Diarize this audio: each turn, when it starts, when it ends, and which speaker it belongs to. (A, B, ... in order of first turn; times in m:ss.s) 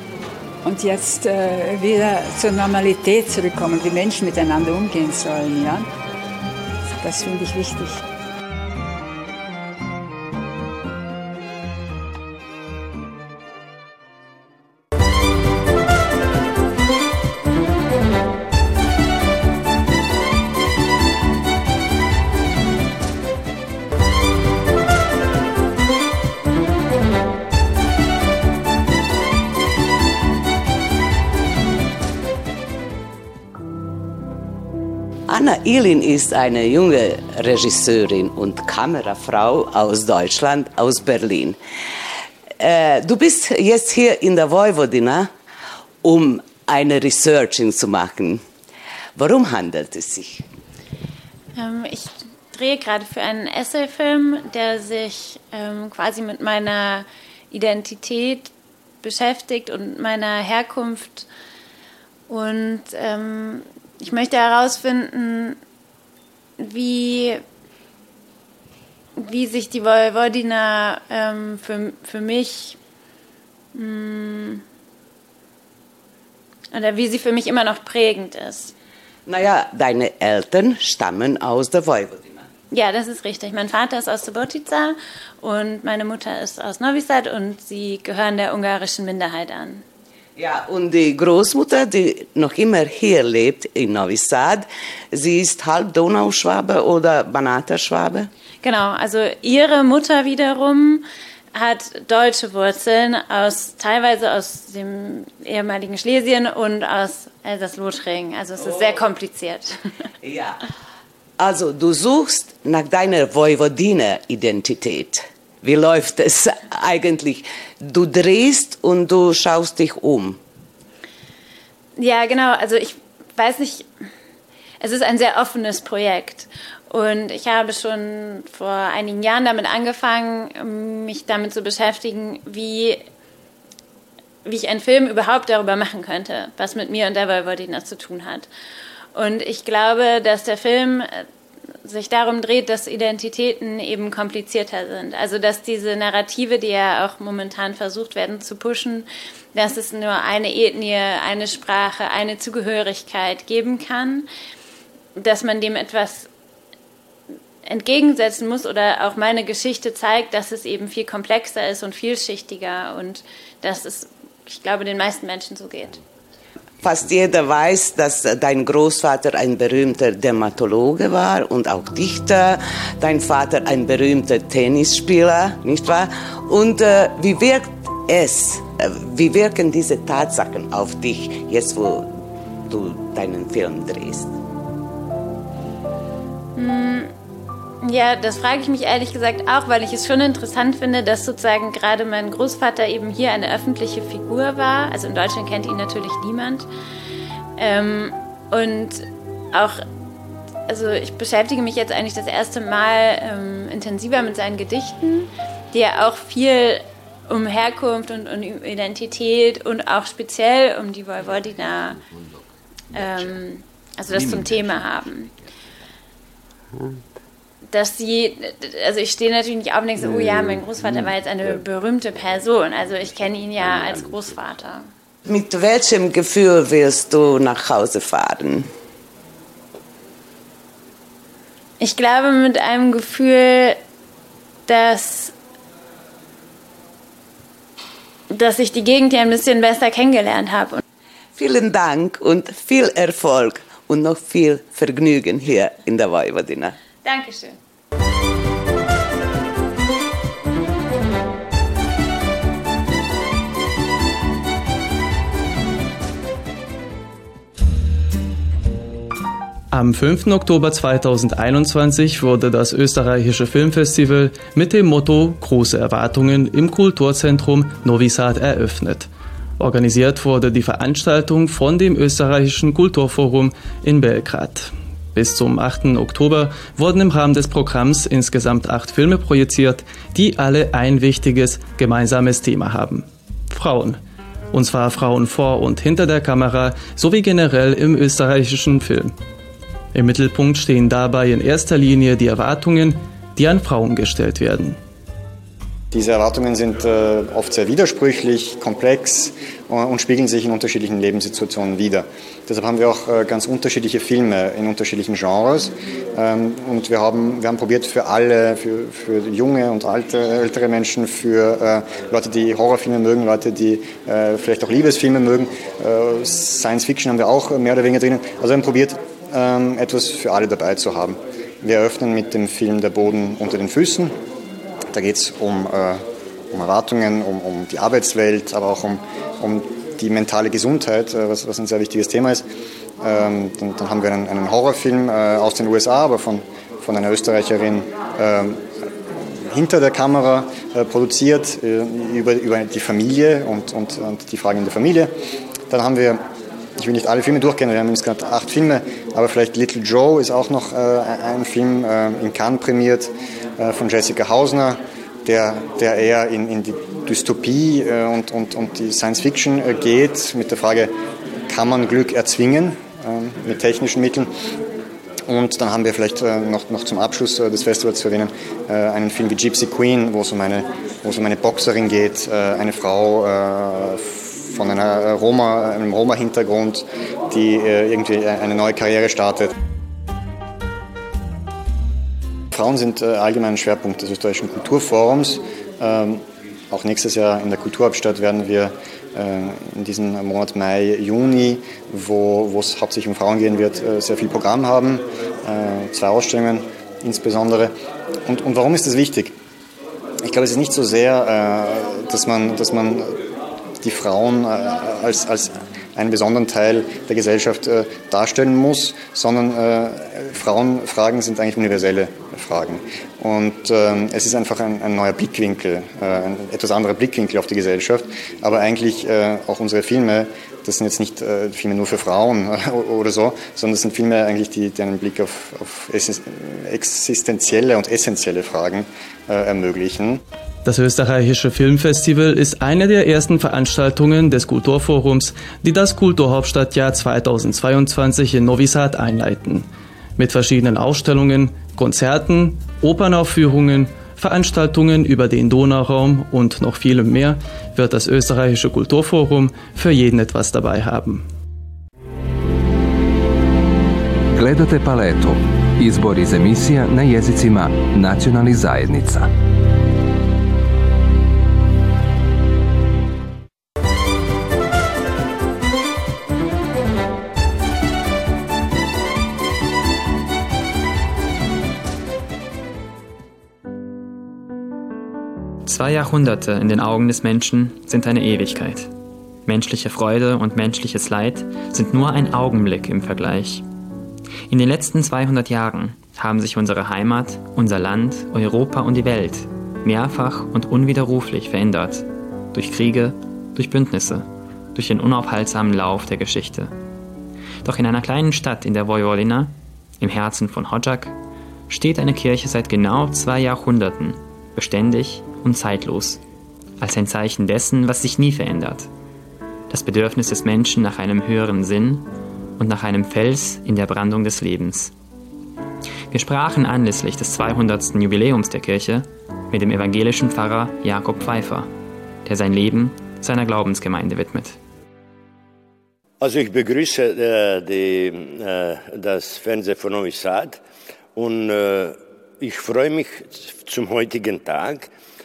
0:00.6-0:05.9 A
0:07.0-0:08.0 A
0:35.3-0:41.6 B
0:42.6-0:45.3 B
0:46.0-0:48.4 B
0:49.2-0:50.4 B
0:51.6-0:58.5 C
0:59.0-1:01.3 C
1:02.3-1:05.6 C
1:06.6-1:07.4 C
1:09.2-1:12.8 C
1:13.7-1:14.6 C
1:16.7-1:18.7 C
1:19.3-1:22.5 B
1:22.7-1:29.8 C
1:30.4-1:38.3 B
1:38.6-1:49.9 C
1:48.6-1:49.0 B
1:50.2-1:50.6 B
1:51.4-2:00.4 B
2:02.0-2:03.9 C
2:04.8-2:13.0 C
2:14.4-2:18.5 C
2:19.2-2:21.3 C
2:21.8-2:34.3 C
2:35.2-2:36.3 C
2:37.6-2:46.0 C
2:46.8-3:02.1 B
3:02.7-3:04.3 B
3:06.6-3:07.1 C
3:07.8-3:16.7 C
3:17.6-3:19.8 C
3:20.7-3:32.0 C
3:32.9-3:35.3 C
3:37.7-3:44.9 C
3:45.3-3:48.7 B
3:51.8-3:53.8 C
3:54.7-3:55.3 C
3:58.3-4:00.8 C
4:01.4-4:06.8 B
4:07.0-4:07.6 C
4:19.7-4:44.0 D
4:44.5-4:49.1 D
4:49.9-4:54.8 D
4:55.9-5:24.1 E
5:24.9-5:32.4 E
5:33.0-5:45.1 E
5:45.7-5:46.2 E
5:46.8-6:00.9 E
6:01.5-6:04.3 E
6:05.3-6:19.5 E
6:22.5-6:37.7 E
6:38.2-6:39.3 E
6:40.2-6:43.3 E
6:43.8-7:10.2 E
7:10.6-7:31.2 D
7:34.3-7:39.3 F
7:55.6-7:58.9 G
7:59.5-8:03.6 G
8:04.5-8:16.7 G
8:17.6-8:21.1 G
8:21.7-8:26.2 G
8:26.8-8:28.9 G
8:29.7-8:34.9 G
8:36.1-8:41.7 G
8:42.2-8:44.6 G
8:46.2-8:50.6 H
8:51.2-8:54.9 H